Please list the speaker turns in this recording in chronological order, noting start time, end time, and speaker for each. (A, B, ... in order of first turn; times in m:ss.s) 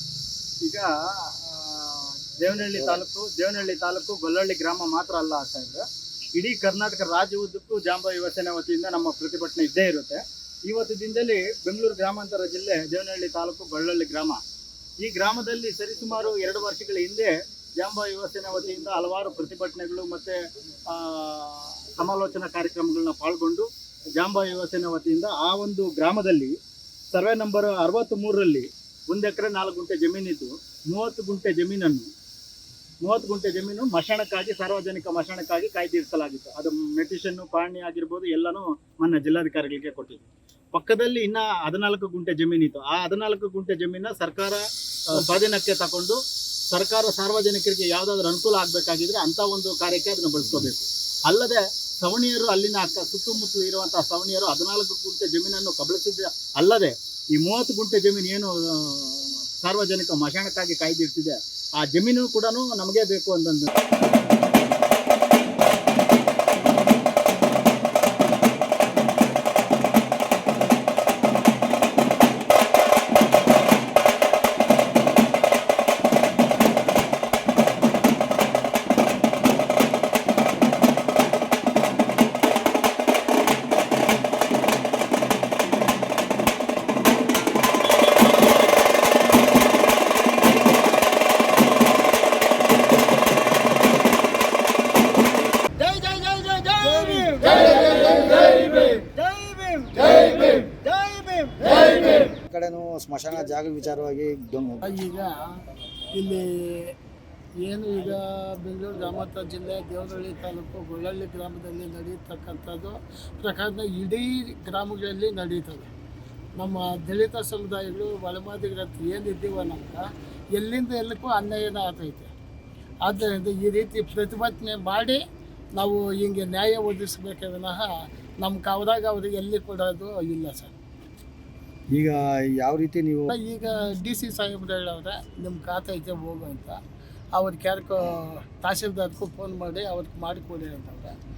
0:00.6-0:05.8 A
0:02.7-0:03.0 B
0:06.3-0:14.4 A
0:15.0-0:20.4 A
0:20.9-0:26.5 A
0:27.1-0:32.1 A
0:33.0-0:40.2 A
0:40.7-0:46.2 A
0:46.7-1:03.7 A
1:35.9-1:38.4 B
1:36.7-1:37.7 A
1:39.0-1:44.8 B
1:39.2-1:39.9 A
1:44.8-1:45.5 C
1:46.1-1:46.9 C
1:47.6-1:55.9 C
1:56.6-2:00.0 C
2:00.5-2:02.3 C
2:03.0-2:05.2 C
2:05.8-2:07.9 C
2:08.4-2:10.7 C
2:11.9-2:13.3 B
2:13.3-2:16.8 C
2:17.3-2:21.1 C